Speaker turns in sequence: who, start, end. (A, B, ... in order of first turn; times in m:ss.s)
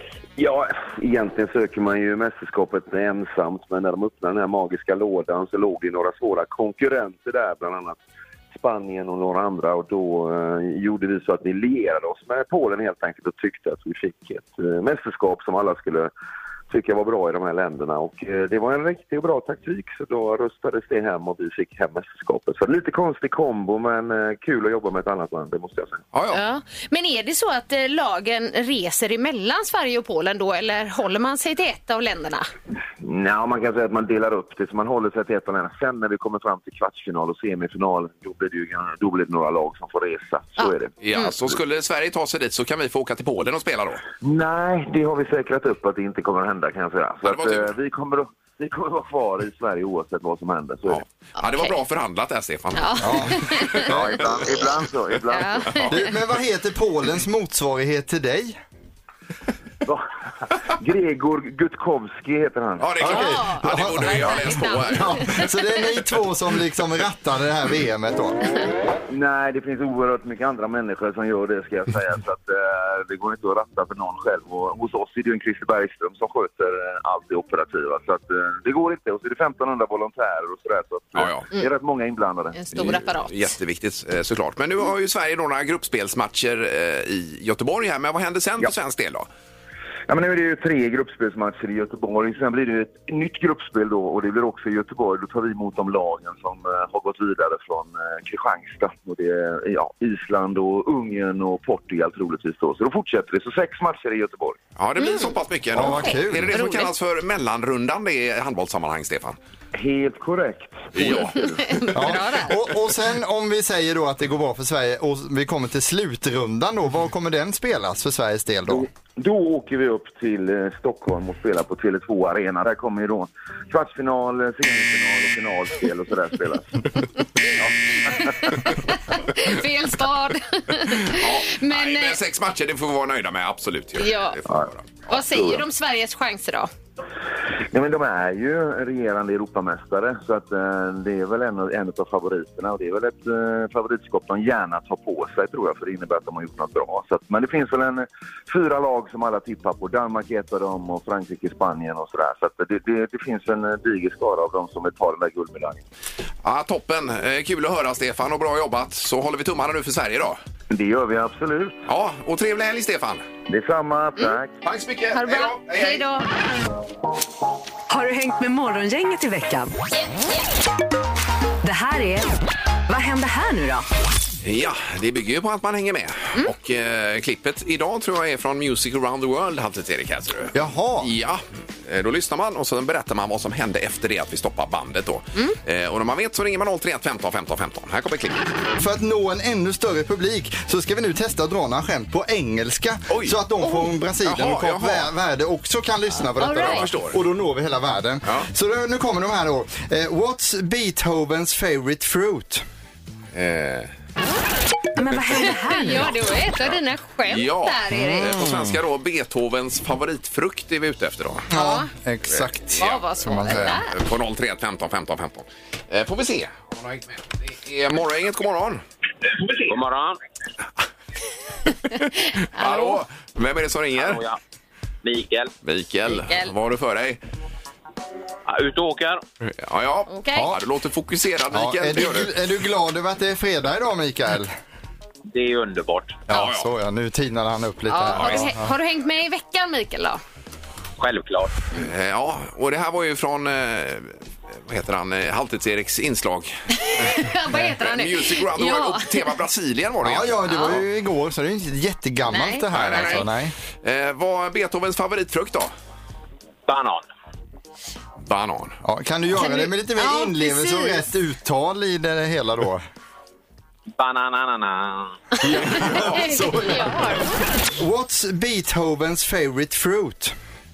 0:00.4-0:08.0 A
0:08.5-0:16.1 A
0:16.7-0:26.0 A
0:26.1-0:26.4 B
0:26.3-0:32.5 C
0:33.0-0:40.9 A
0:40.6-0:41.3 C
0:41.0-0:44.0 B
0:44.2-0:51.0 A
0:47.2-0:47.7 B
0:50.9-0:54.1 B
0:51.4-0:51.8 C
0:52.8-0:53.9 C
0:53.0-0:54.2 D
0:53.8-0:55.9 A
0:55.3-0:56.0 C
0:55.8-0:58.6 D
1:00.7-1:03.0 A
1:02.8-1:05.4 B
1:03.0-1:08.4 D
1:03.0-1:05.5 C
1:09.1-1:22.6 A
1:21.1-1:21.4 B
1:22.5-1:23.5 C
1:22.7-1:29.3 B
1:30.1-1:44.6 A
1:44.8-1:49.4 B
1:45.0-1:46.9 C
1:45.7-1:46.6 D
1:49.7-1:51.8 A
1:50.9-1:51.4 B
1:51.6-1:52.5 C
1:51.9-1:58.9 D
1:58.7-2:06.9 A
2:08.0-2:08.3 A
2:08.1-2:12.2 C
2:10.9-2:15.0 B
2:14.0-2:14.4 C
2:14.5-2:15.6 A
2:15.1-2:16.7 C
2:17.7-2:35.8 A
2:36.4-2:40.4 B
2:40.7-2:41.8 A
2:41.9-2:43.2 B
2:43.5-2:44.5 A
2:44.6-2:46.0 B
2:45.1-2:46.2 C
2:47.9-2:49.7 E
2:51.6-2:52.3 E
2:52.9-2:53.8 E
2:54.4-3:08.6 B
3:00.5-3:01.1 D
3:08.8-3:22.6 D
3:13.1-3:13.4 B
3:14.2-3:15.1 B
3:16.4-3:16.8 C
3:16.5-3:17.2 B
3:23.3-3:23.9 B
3:25.0-3:26.1 E
3:25.4-3:28.4 C
3:27.3-3:31.5 B
3:28.0-3:28.8 D
3:31.5-3:33.8 D
3:31.5-3:31.9 C
3:32.3-3:38.8 B
3:32.8-3:33.9 C
3:39.7-3:40.2 F
3:41.9-3:43.0 C
3:42.5-3:44.2 B
3:44.0-3:44.4 F
3:45.0-3:45.5 F
3:45.6-3:47.2 B
3:46.1-3:46.5 C
3:48.5-3:49.2 F
3:49.4-3:52.3 B
3:50.1-3:50.5 C
3:51.5-3:54.5 D
3:55.3-3:56.2 F
3:56.3-3:58.7 D
3:56.3-3:56.7 B
3:57.9-4:00.2 C
3:58.1-3:58.5 B
4:01.0-4:01.5 F
4:01.7-4:10.8 B
4:06.8-4:09.2 C
4:10.0-4:13.5 D
4:10.5-4:10.7 C
4:12.3-4:13.2 C
4:12.7-4:13.3 B
4:13.8-4:15.7 B
4:16.7-4:17.0 F
4:18.2-4:18.8 B
4:18.8-4:22.8 D
4:19.4-4:21.0 C
4:24.0-4:25.1 F
4:25.4-4:27.3 C
4:25.4-4:26.6 B
4:25.4-4:26.9 D
4:27.6-4:30.3 D